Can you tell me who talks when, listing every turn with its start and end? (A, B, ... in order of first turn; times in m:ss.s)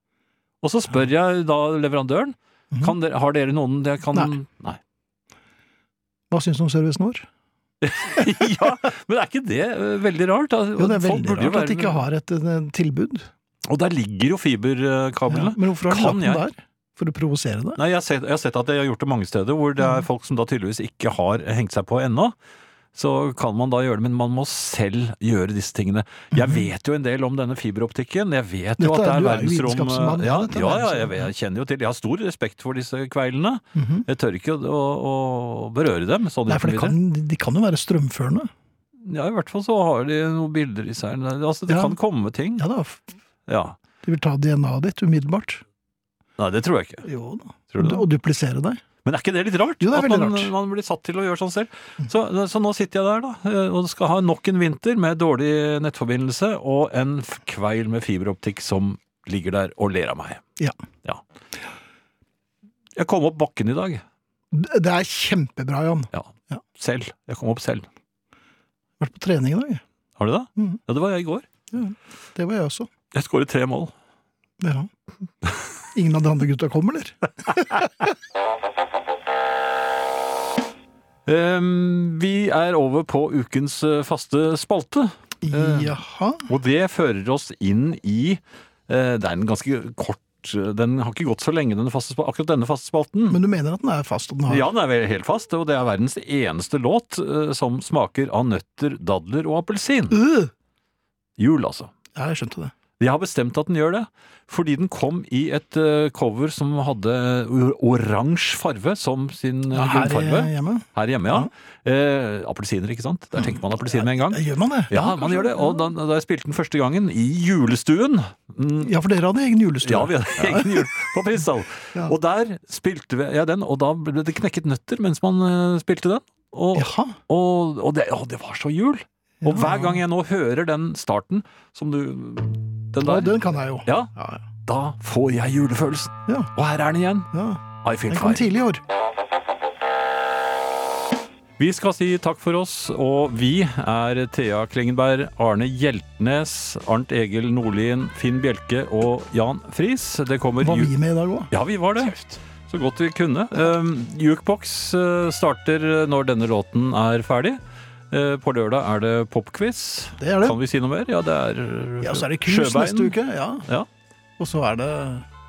0:00.6-0:04.8 A
0:06.3-0:07.3 B
0:07.8-0:12.0 A
0:10.8-0:13.3 B
0:13.7-0:16.4 A
0:15.3-0:17.8 B
0:17.8-0:22.3 A
0:23.0-0:37.0 A
0:26.3-0:26.7 B
0:28.8-0:31.3 B
0:33.7-0:34.0 B
0:36.5-0:38.5 B
0:39.0-0:42.7 A
0:41.7-0:42.0 B
0:42.6-0:43.1 B
0:43.5-0:43.8 A
0:44.0-0:45.6 B
0:46.4-0:47.0 A
0:47.0-0:48.8 B
0:47.7-0:48.0 A
0:49.0-1:00.4 A
0:49.8-0:50.5 B
1:03.0-1:04.0 A
1:04.5-1:06.6 B
1:06.1-1:07.9 A
1:09.0-1:09.8 B
1:10.2-1:11.4 A
1:11.7-1:12.9 B
1:13.1-1:13.9 A
1:14.6-1:14.9 B
1:15.9-1:18.1 B
1:21.3-1:26.0 A
1:25.4-1:26.5 B
1:26.5-1:33.4 A
1:33.3-1:34.7 B
1:34.5-1:40.2 A
1:40.1-1:40.5 B
1:41.4-1:41.9 A
1:42.1-1:42.7 B
1:43.0-1:58.9 A
1:49.7-1:51.5 B
1:53.4-1:55.9 B
1:58.8-2:01.1 B
1:59.8-2:14.1 A
2:06.7-2:07.2 B
2:09.4-2:10.0 B
2:13.0-2:14.4 B
2:14.6-2:17.3 A
2:17.3-2:18.8 B
2:17.8-2:18.5 A
2:21.6-2:30.9 A
2:30.6-2:31.5 B
2:31.5-2:37.6 A
2:38.1-2:43.2 A
2:40.2-2:40.6 B
2:42.0-2:43.7 B
2:44.4-2:45.3 B